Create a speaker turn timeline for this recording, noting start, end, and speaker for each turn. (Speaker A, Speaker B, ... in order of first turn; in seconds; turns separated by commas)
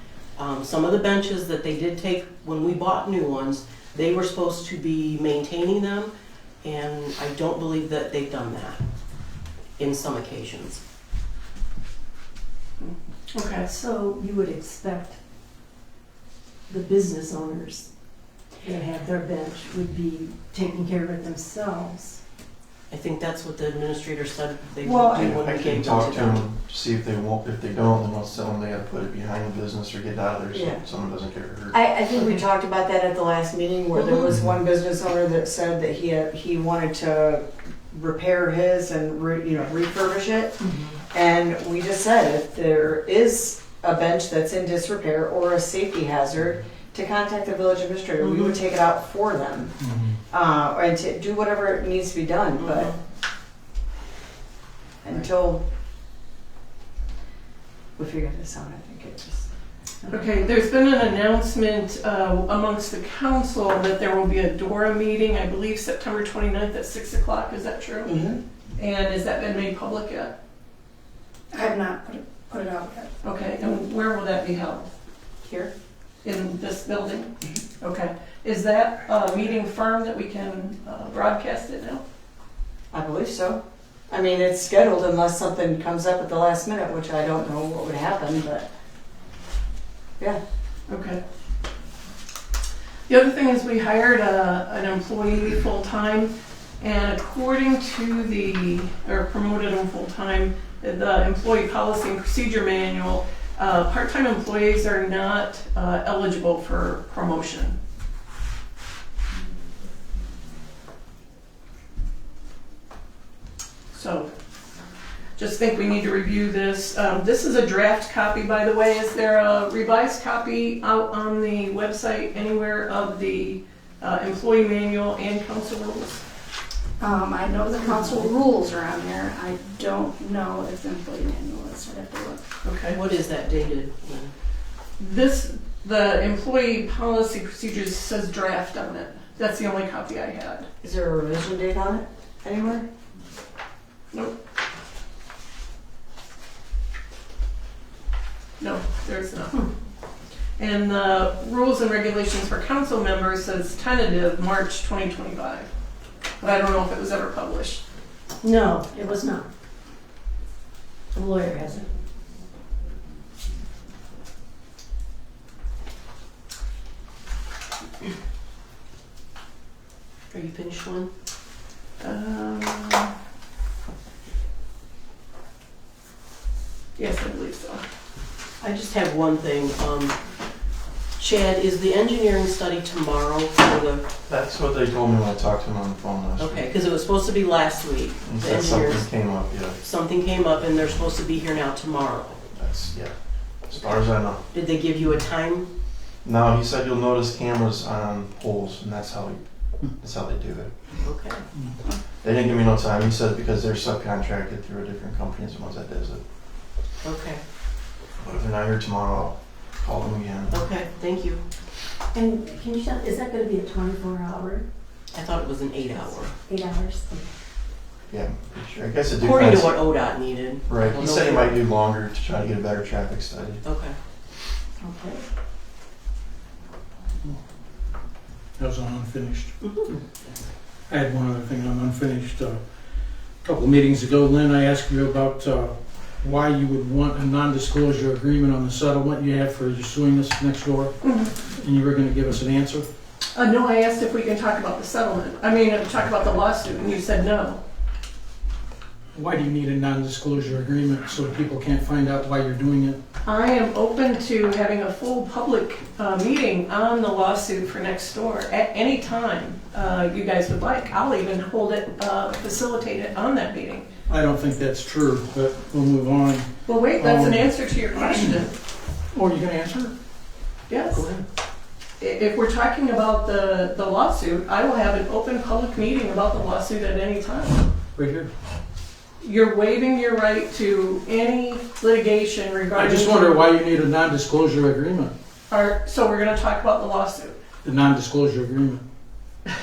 Speaker A: 0.4-8.8, Speaker A: 9.8-10.8, Speaker B: 12.8-13.7, Speaker C: 13.7-15.2, Speaker C: 16.7-17.9, Speaker C: 18.6-22.2, Speaker A: 22.9-26.5, Speaker D: 24.8-25.4, Speaker E: 25.1-31.8, Speaker D: 30.5-30.8, Speaker D: 31.7-49.8, Speaker A: 48.2-48.5, Speaker F: 49.8-50.2, Speaker D: 50.3-52.9, Speaker A: 52.6-53.0, Speaker D: 55.0-55.6, Speaker D: 58.0-59.5, Speaker B: 60.1-68.2, Speaker D: 68.0-68.4, Speaker B: 68.8-70.3, Speaker G: 71.5-73.1, Speaker B: 73.2-74.9, Speaker B: 76.2-82.0, Speaker D: 82.9-88.7, Speaker B: 90.9-91.2, Speaker B: 93.1-107.8, Speaker B: 113.9-114.3, Speaker B: 115.4-126.2, Speaker G: 127.0-132.5, Speaker B: 132.6-133.0, Speaker A: 132.9-134.3, Speaker B: 135.0-140.7, Speaker D: 140.8-142.9, Speaker B: 148.6-149.7, Speaker B: 150.6-155.7, Speaker B: 156.4-157.8, Speaker C: 158.4-159.5, Speaker C: 161.1-161.9, Speaker A: 170.3-171.1, Speaker B: 172.0-173.1, Speaker B: 177.0-177.8, Speaker A: 178.6-180.2, Speaker A: 181.2-184.1, Speaker E: 184.3-186.7, Speaker A: 186.4-189.1, Speaker E: 188.2-189.8, Speaker A: 189.8-192.4, Speaker E: 192.6-194.5, Speaker A: 193.8-195.7, Speaker E: 196.2-200.7, Speaker A: 201.0-201.4, Speaker E: 202.2-206.2, Speaker A: 207.0-207.4, Speaker E: 208.2-210.7, Speaker A: 210.5-211.4, Speaker C: 212.1-214.7, Speaker A: 215.1-216.3, Speaker C: 216.5-217.3, Speaker E: 218.1-220.0, Speaker A: 219.2-221.7, Speaker E: 220.7-223.6, Speaker A: 223.6-224.0, Speaker C: 224.8-225.2, Speaker F: 228.6-229.9, Speaker A: 229.6-229.9, Speaker F: 230.9-232.6, Speaker F: 233.4-240.9, Speaker B: 241.0-241.3, Speaker F: 241.5-242.9, Speaker B: 243.3-247.6, Speaker F: 249.2-253.0, Speaker B: 253.2-263.9, Speaker F: 264.1-267.5, Speaker B: 266.7-268.5, Speaker F: 269.1-269.9, Speaker B: 270.7-271.1, Speaker F: 270.9-271.2, Speaker B: 272.0-277.6, Speaker F: 278.0-278.3, Speaker B: 279.2-283.4, Speaker F: 282.8-285.1, Speaker B: 285.5-287.4, Speaker F: 287.6-288.8